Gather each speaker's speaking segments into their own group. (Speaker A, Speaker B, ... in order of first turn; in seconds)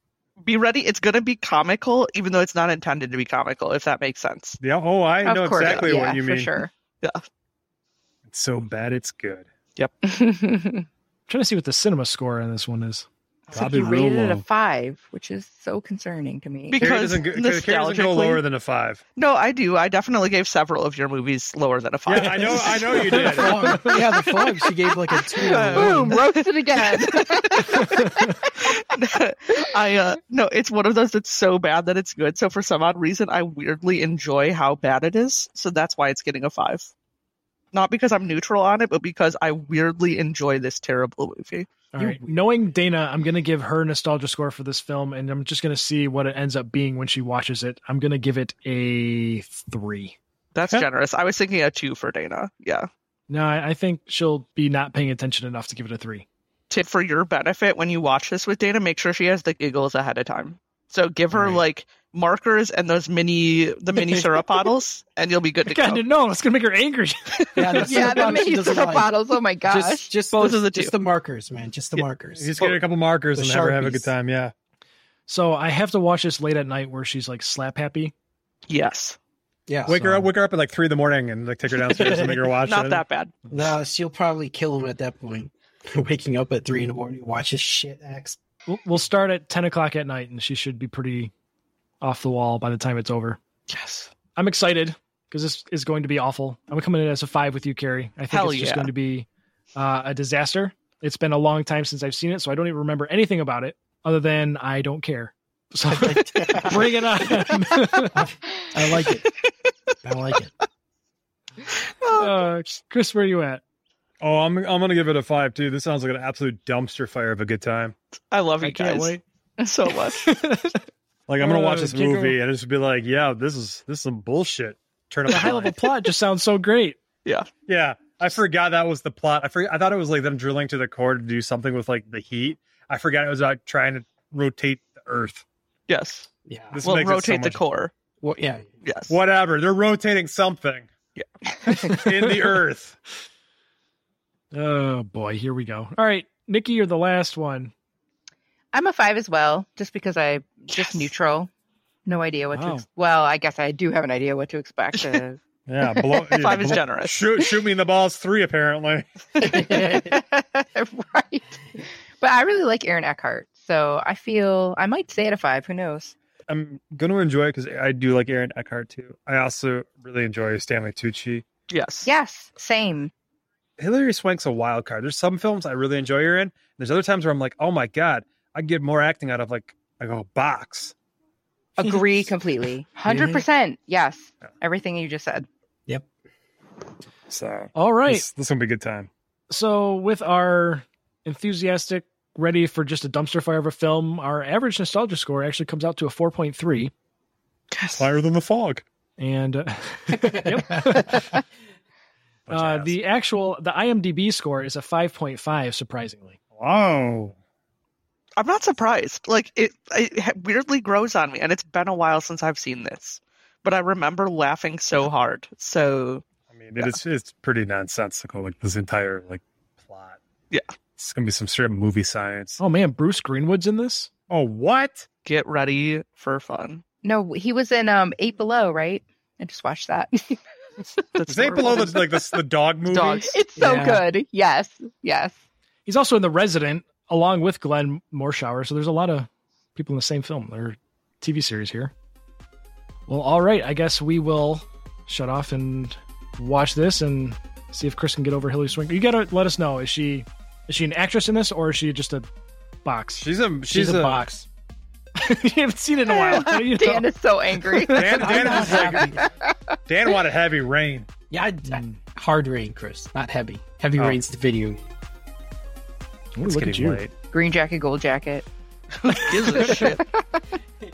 Speaker A: 0.4-4.6, 5.6-6.0, 16.7-18.4, 19.2-23.3, 25.4-27.8, 28.6-36.9, 37.7-41.7, 50.5-52.9, 56.7-66.0, 70.4-70.9, 78.7-79.2, 82.6-83.3, 93.7-94.1, 98.3-98.9, 111.8-112.5, 118.3-120.3, 135.9-136.3, 136.8-137.9, 138.8-139.2, 150.7-151.1, 154.9-155.3, 156.3-157.3, 171.7-172.1, 197.7-198.1, 208.4-216.2, 225.2-226.8, 231.1-233.3, 269.0-270.0
Speaker B: 4.6-6.5, 8.3-9.5, 13.5-14.4, 16.8-19.0, 22.1-23.8, 72.0-74.5, 79.9-83.0, 114.2-118.0, 121.3-125.9, 127.7-135.4, 136.7-137.6, 139.1-140.9, 141.7-143.0, 155.7-159.6, 166.5-171.4, 173.8-180.9, 187.3-189.1, 197.9-198.8, 202.5-203.0, 206.5-207.3, 216.5-220.2, 221.0-222.6, 224.3-225.1, 231.2-233.3, 253.2-254.2, 257.9-259.1, 259.9-261.1, 266.4-267.1
Speaker C: 5.2-6.7, 10.0-10.8, 13.5-16.9, 25.4-28.8, 67.8-70.1, 148.7-151.5, 152.1-155.3, 155.9-156.4, 159.5-166.2, 172.1-173.1, 181.8-185.5, 227.0-230.4, 233.3-235.4, 256.1-259.5, 267.3-268.5, 269.6-270.2
Speaker D: 11.3-13.1, 22.9-24.2, 27.7-28.4, 41.9-50.2, 53.3-56.3, 65.7-68.3, 75.3-78.1, 79.9-80.3, 88.7-91.3, 92.0-93.4, 94.3-108.2, 112.2-113.6, 118.6-119.2, 120.1-120.8, 121.4-122.4, 125.3-127.0, 141.8-142.6, 144.5-147.7, 152.5-152.8, 187.7-188.3, 189.5-196.9, 199.2-201.4, 202.5-206.4, 222.6-224.1, 235.9-241.9, 243.1-252.3, 252.8-253.3, 255.2-257.1, 257.7-258.8, 261.7-262.0, 266.4-267.0
Speaker E: 13.5-13.9, 23.1-26.2, 42.0-42.4, 67.6-69.1, 69.7-72.8, 73.3-74.1, 79.7-80.0, 81.9-82.4, 83.5-88.4, 105.8-107.6, 108.1-109.3, 110.0-110.5, 136.5-136.9, 138.2-138.7, 159.4-160.1, 183.1-183.4, 200.1-201.1, 233.6-234.0, 253.7-254.5, 257.9-259.2, 261.3-264.8